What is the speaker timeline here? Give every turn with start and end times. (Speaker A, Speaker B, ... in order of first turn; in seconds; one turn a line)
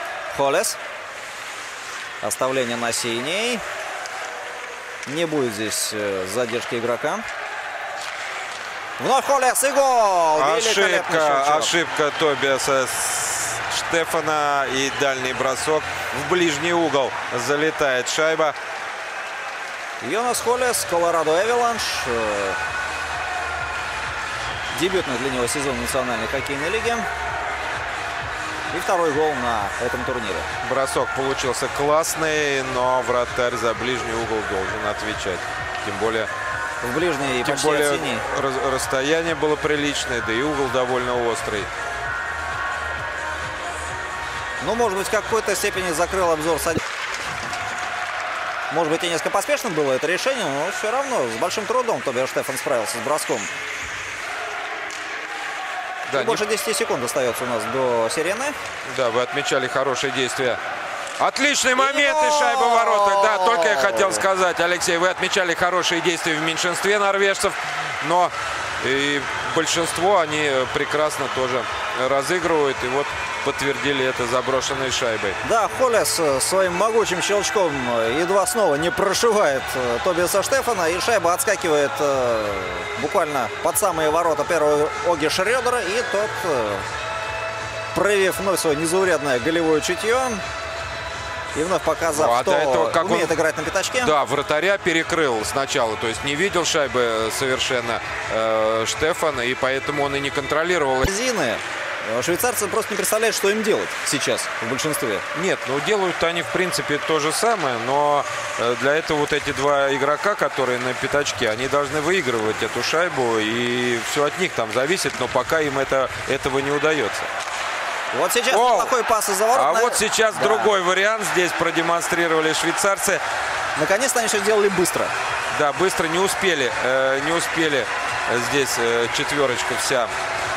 Speaker A: 0.3-0.8
Speaker A: 2.2-3.6
Speaker A: 5.0-7.2
Speaker A: 9.0-11.7
Speaker B: 10.3-18.6
Speaker A: 20.0-22.6
Speaker A: 24.7-27.1
Speaker A: 28.7-30.5
Speaker B: 30.6-36.3
Speaker A: 36.8-38.2
Speaker B: 37.4-41.7
Speaker A: 44.6-46.9
Speaker A: 48.7-53.5
Speaker B: 56.1-56.4
Speaker A: 56.1-58.5
Speaker B: 58.9-60.6
Speaker B: 61.2-75.4
Speaker A: 61.8-64.2
Speaker A: 75.4-86.8
Speaker A: 87.9-90.4
Speaker A: 91.5-94.1
Speaker B: 92.1-93.3
Speaker B: 94.0-101.1
Speaker A: 101.0-105.2
Speaker B: 105.3-117.3
Speaker A: 118.1-120.7
Speaker B: 118.5-118.9
Speaker B: 119.5-123.2
Speaker A: 123.8-125.1
Speaker B: 125.5-130.1